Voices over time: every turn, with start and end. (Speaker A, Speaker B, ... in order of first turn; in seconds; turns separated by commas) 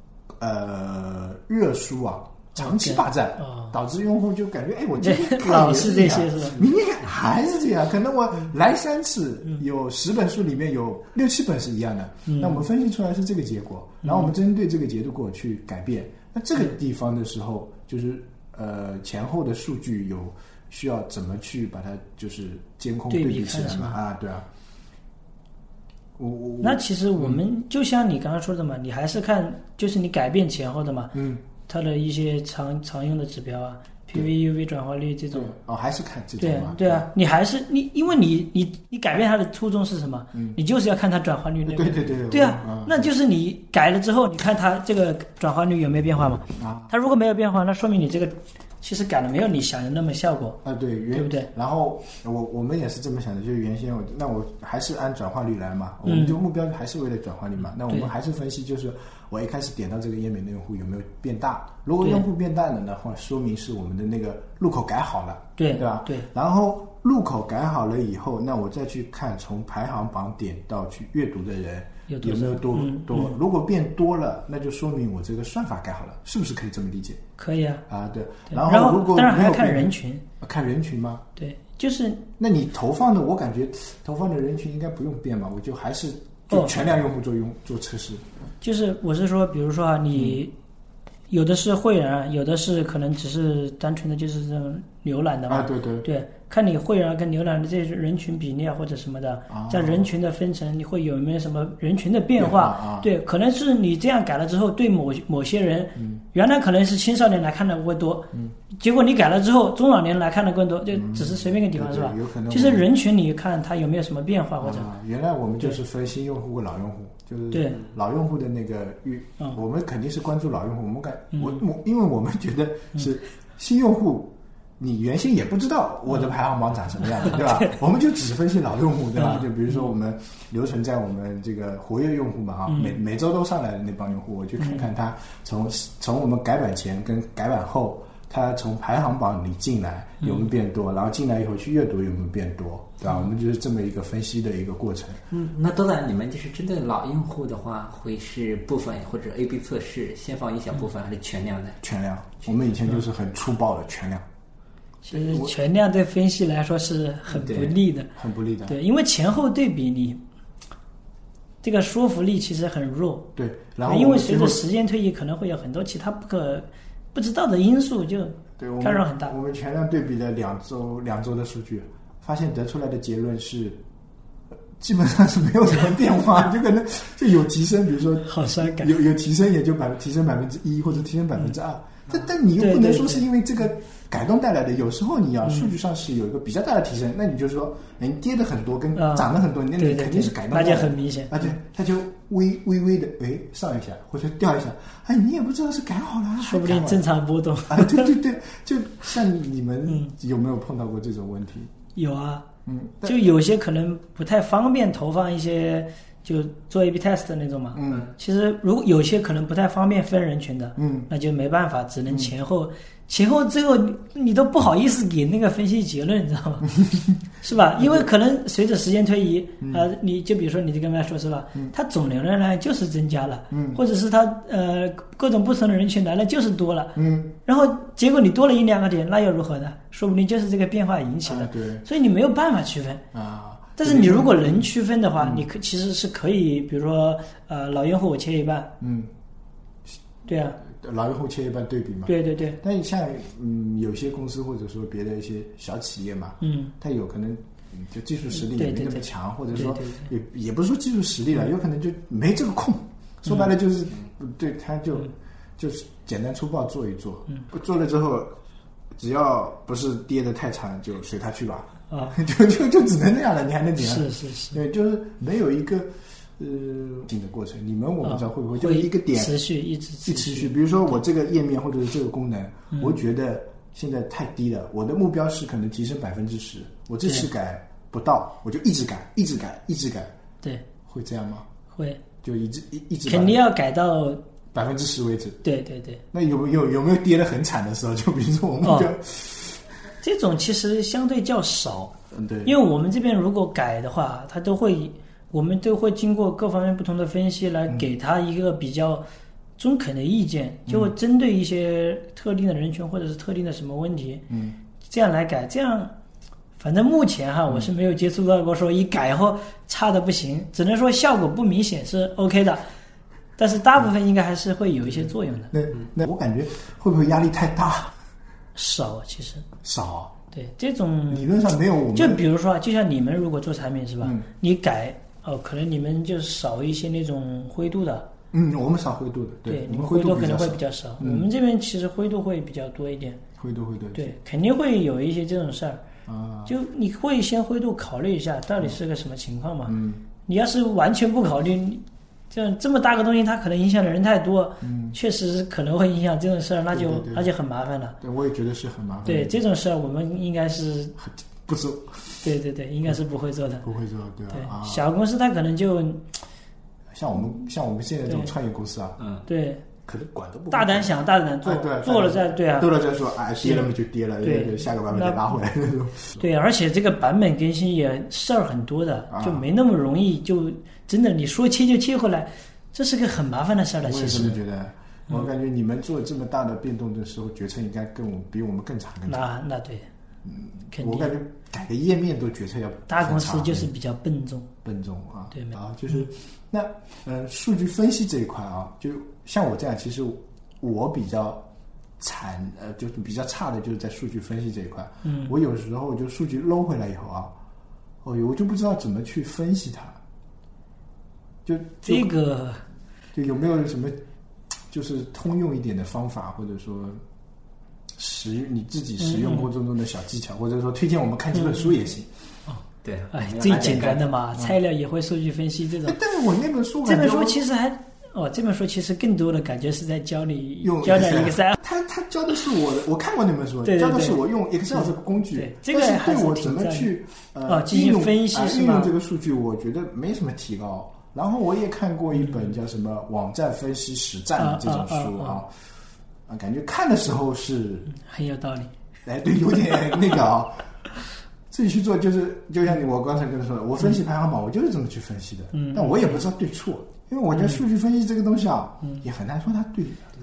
Speaker A: 0.4-24.5, Speaker B: 2.6-3.7, Speaker B: 5.0-6.7, Speaker B: 12.3-12.6, Speaker B: 14.0-14.3, Speaker B: 23.1-24.0, Speaker A: 26.2-27.4, Speaker B: 26.6-31.1, Speaker A: 31.1-31.4, Speaker B: 31.6-35.5, Speaker A: 35.3-37.1, Speaker B: 36.4-50.6, Speaker A: 41.6-43.1, Speaker A: 46.5-46.9, Speaker A: 50.6-77.2, Speaker B: 51.1-51.5, Speaker B: 56.0-56.4, Speaker B: 65.6-66.3, Speaker B: 72.1-73.4, Speaker B: 77.4-77.8, Speaker A: 77.9-81.2, Speaker B: 78.5-80.2, Speaker B: 81.4-82.2, Speaker A: 82.4-88.2, Speaker B: 88.6-90.5, Speaker A: 90.1-90.4, Speaker B: 91.3-114.9, Speaker A: 95.5-96.1, Speaker A: 99.5-100.1, Speaker A: 102.4-103.1, Speaker A: 106.0-106.2, Speaker A: 110.9-112.8, Speaker A: 114.6-145.2, Speaker B: 117.5-117.8, Speaker B: 121.3-121.6, Speaker B: 127.3-127.7, Speaker B: 129.2-129.8, Speaker B: 132.7-133.0, Speaker B: 134.6-134.9, Speaker B: 140.2-140.5, Speaker C: 145.3-151.8, Speaker A: 151.8-154.2, Speaker B: 155.0-158.1, Speaker A: 155.1-155.5, Speaker A: 157.3-158.8, Speaker B: 158.7-160.2, Speaker B: 161.6-163.3, Speaker A: 163.4-164.6, Speaker B: 163.8-169.3, Speaker A: 168.6-173.8, Speaker A: 174.8-197.0, Speaker B: 178.2-179.0, Speaker B: 182.6-183.3, Speaker B: 185.4-185.7, Speaker B: 188.9-191.5, Speaker B: 196.4-198.1, Speaker A: 197.7-201.7, Speaker B: 199.9-200.1, Speaker B: 201.9-202.4, Speaker A: 202.7-203.3, Speaker B: 203.0-216.8, Speaker A: 207.7-208.1, Speaker A: 210.8-211.1, Speaker A: 216.8-217.2, Speaker B: 217.4-233.0, Speaker A: 217.8-218.1, Speaker A: 219.6-219.9, Speaker A: 223.5-223.8, Speaker A: 226.9-227.3, Speaker A: 231.2-231.8, Speaker A: 233.1-235.4, Speaker B: 233.8-238.7, Speaker A: 238.8-239.1, Speaker B: 240.2-240.6, Speaker A: 240.6-258.4, Speaker B: 242.1-242.6, Speaker B: 246.4-246.7, Speaker B: 248.3-250.1, Speaker A: 258.9-269.4, Speaker B: 261.9-262.2, Speaker B: 263.8-264.6, Speaker B: 268.0-270.6, Speaker A: 270.0-280.1, Speaker A: 280.9-281.5, Speaker B: 281.7-282.0, Speaker A: 282.2-283.4, Speaker B: 283.1-284.2, Speaker A: 284.5-285.4, Speaker B: 285.4-286.0, Speaker A: 286.1-289.7, Speaker B: 288.6-288.9, Speaker B: 290.0-299.0, Speaker A: 292.1-292.5, Speaker B: 299.6-304.2, Speaker A: 300.7-300.9, Speaker A: 304.3-304.6, Speaker B: 304.8-305.9, Speaker B: 306.6-312.6, Speaker B: 313.4-315.5, Speaker A: 315.5-317.9, Speaker B: 318.5-319.4, Speaker A: 319.6-320.1, Speaker B: 320.3-321.4, Speaker A: 321.1-322.2, Speaker B: 321.9-328.1, Speaker A: 324.0-324.3, Speaker A: 328.3-331.3, Speaker B: 329.5-333.2, Speaker A: 333.4-334.1, Speaker B: 333.9-335.8, Speaker A: 336.1-336.5, Speaker B: 336.4-348.0, Speaker A: 339.7-340.0, Speaker A: 344.6-345.0, Speaker A: 346.7-347.3, Speaker A: 348.0-349.4, Speaker B: 349.1-350.9, Speaker A: 351.0-352.2, Speaker B: 352.2-353.7, Speaker A: 353.6-354.9, Speaker B: 354.3-356.1, Speaker A: 356.9-359.0, Speaker B: 358.1-358.3, Speaker C: 359.0-359.2, Speaker B: 359.2-359.6, Speaker A: 359.9-366.2, Speaker B: 360.5-362.7, Speaker B: 363.4-363.7, Speaker B: 364.2-365.2, Speaker B: 366.2-374.4, Speaker A: 369.1-369.4, Speaker A: 373.9-379.2, Speaker B: 379.1-379.9, Speaker A: 380.2-383.7, Speaker B: 380.7-381.1, Speaker B: 382.9-384.5, Speaker A: 384.6-391.5, Speaker B: 385.3-386.1, Speaker A: 392.0-397.3, Speaker B: 395.0-395.4, Speaker A: 398.0-400.0, Speaker A: 401.4-402.1, Speaker B: 401.9-402.6, Speaker A: 403.1-404.0, Speaker A: 404.7-407.0, Speaker A: 407.9-412.1, Speaker B: 409.0-409.5, Speaker B: 411.3-411.7, Speaker C: 412.8-414.1, Speaker B: 413.1-416.0, Speaker A: 415.8-417.4, Speaker B: 416.8-421.6, Speaker A: 420.6-435.5, Speaker B: 423.6-424.2, Speaker B: 424.7-426.9, Speaker B: 427.4-428.9, Speaker B: 434.4-435.4, Speaker A: 436.3-437.9, Speaker B: 437.9-438.7, Speaker A: 439.0-440.7, Speaker A: 441.5-450.1, Speaker B: 445.5-446.2, Speaker B: 447.3-447.6